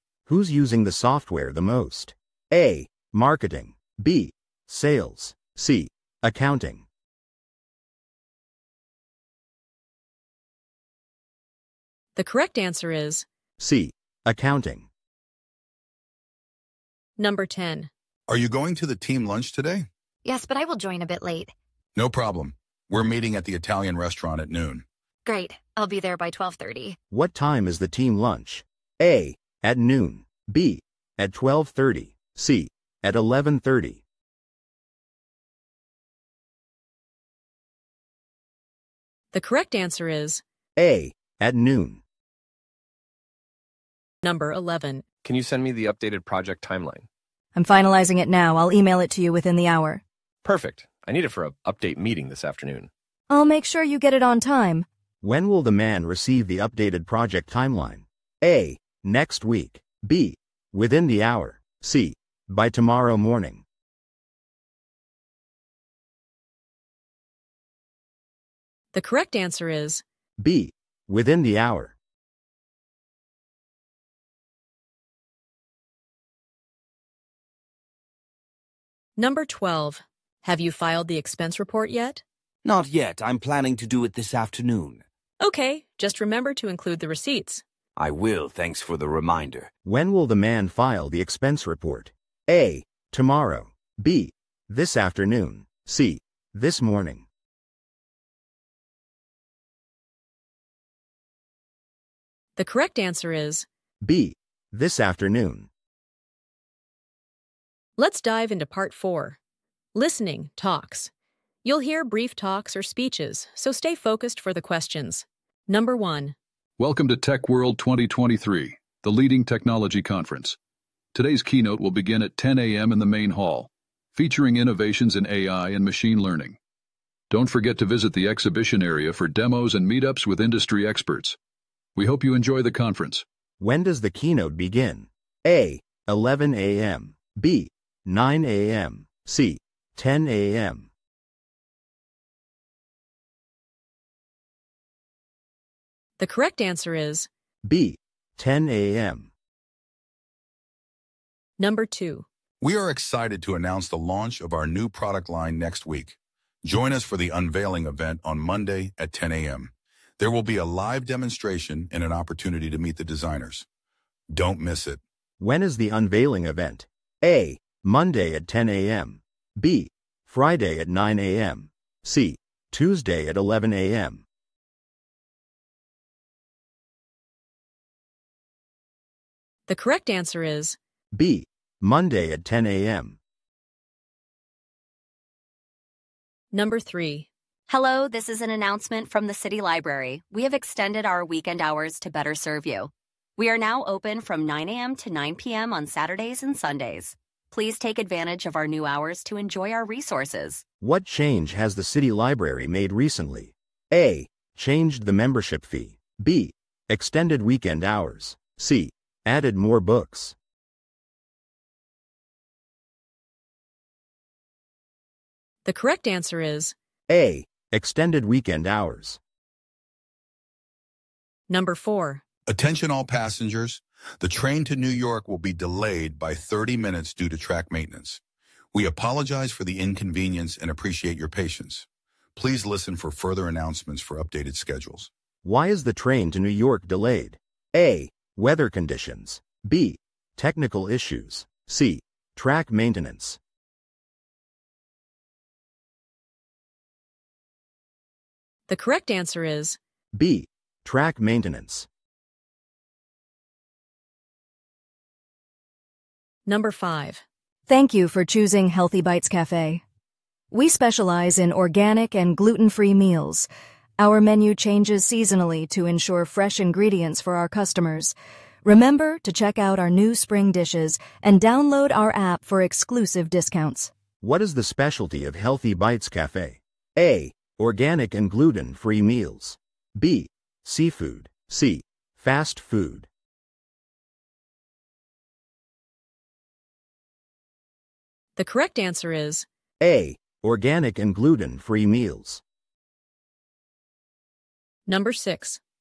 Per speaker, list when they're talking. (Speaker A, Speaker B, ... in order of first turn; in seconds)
Speaker A: 0.3-6.9, 13.6-14.9, 27.1-34.0, 40.8-42.0, 55.2-63.6, 70.4-72.0, 89.8-97.3, 104.0-105.7, 133.6-140.9, 147.6-149.3, 165.4-174.2, 181.1-183.2, 200.8-210.3, 217.1-219.2, 235.4-243.4, 250.1-251.9, 274.2-283.1, 289.8-292.4
Speaker B: 12.2-13.3, 17.2-17.9, 39.3-40.4, 44.2-45.0, 68.9-70.0, 79.2-82.2, 85.4-87.6, 102.6-103.7, 108.0-109.4, 110.0-111.1, 111.6-116.3, 146.2-147.3, 151.6-152.3, 179.7-180.8, 186.5-187.3, 215.7-216.8, 221.5-222.2, 248.7-249.8, 256.5-257.2, 288.4-289.5, 294.9-295.6
Speaker C: 18.3-19.9, 22.0-24.8, 152.6-163.7, 164.3-165.0, 222.5-228.2, 228.7-235.1
Speaker D: 20.2-21.5, 25.3-27.0
Speaker E: 45.2-47.1, 50.4-52.9
Speaker F: 47.5-50.0, 53.3-54.9, 257.7-259.8, 260.5-273.9
Speaker G: 82.7-85.0, 88.0-89.7
Speaker H: 116.8-120.6, 121.1-126.6, 127.3-131.4, 132.0-133.2
Speaker I: 187.7-200.6